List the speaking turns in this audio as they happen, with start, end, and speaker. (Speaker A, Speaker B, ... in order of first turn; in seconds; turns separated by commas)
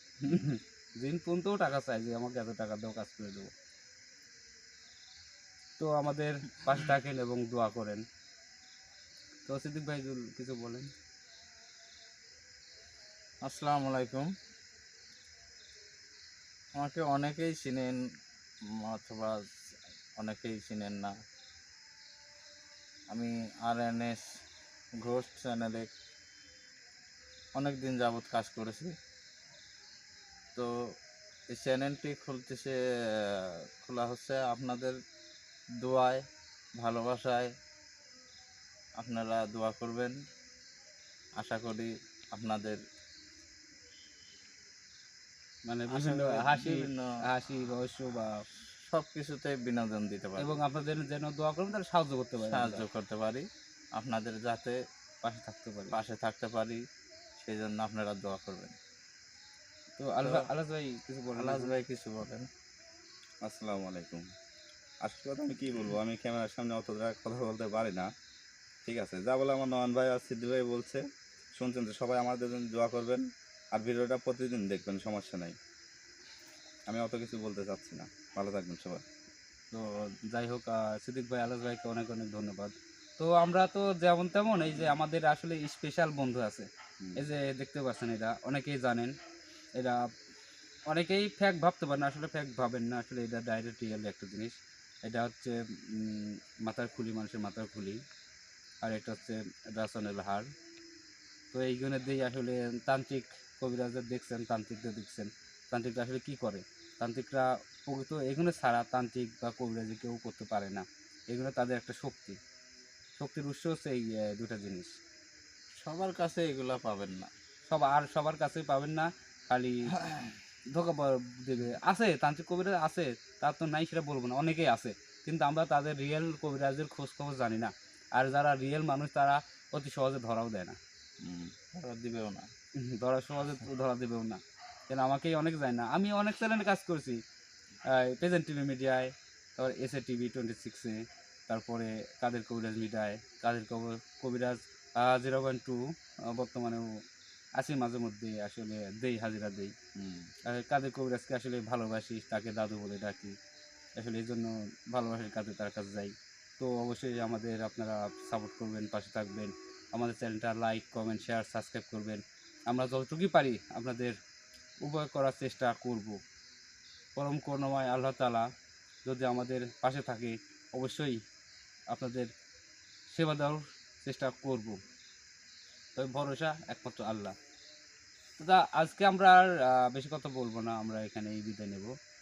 Speaker A: 0.2-3.5, Speaker A: 5.8-8.1, Speaker A: 9.4-10.9, Speaker B: 13.4-14.3, Speaker B: 16.7-18.0, Speaker B: 18.8-19.4, Speaker B: 20.2-21.1, Speaker B: 23.1-24.2, Speaker B: 25.0-25.9, Speaker B: 27.5-28.9, Speaker B: 31.5-35.0, Speaker B: 35.8-36.2, Speaker B: 36.8-37.5, Speaker B: 39.0-40.2, Speaker B: 41.4-42.8, Speaker A: 45.6-48.4, Speaker B: 45.9-47.1, Speaker B: 48.8-50.6, Speaker A: 50.4-52.9, Speaker B: 52.4-54.8, Speaker A: 55.2-56.0, Speaker B: 55.9-56.8, Speaker B: 57.4-58.8, Speaker A: 60.0-61.7, Speaker B: 60.2-60.5, Speaker B: 61.4-62.5, Speaker C: 63.4-64.3, Speaker C: 65.0-68.1, Speaker C: 68.8-71.0, Speaker C: 71.5-75.6, Speaker C: 76.9-79.0, Speaker A: 79.7-89.2, Speaker C: 87.0-87.3, Speaker A: 89.7-90.1, Speaker A: 90.9-98.0, Speaker A: 98.8-100.5, Speaker A: 101.5-112.4, Speaker A: 113.2-115.0, Speaker B: 115.8-117.3, Speaker A: 117.7-130.8, Speaker B: 131.2-132.5, Speaker A: 132.8-137.2, Speaker A: 137.8-146.9, Speaker A: 147.6-149.7, Speaker B: 150.0-150.2, Speaker A: 150.4-153.3, Speaker A: 153.9-164.2, Speaker A: 164.8-166.2, Speaker A: 167.2-168.5, Speaker A: 169.1-171.2, Speaker A: 171.9-172.3, Speaker A: 173.1-174.8, Speaker A: 175.9-177.3, Speaker A: 178.4-181.9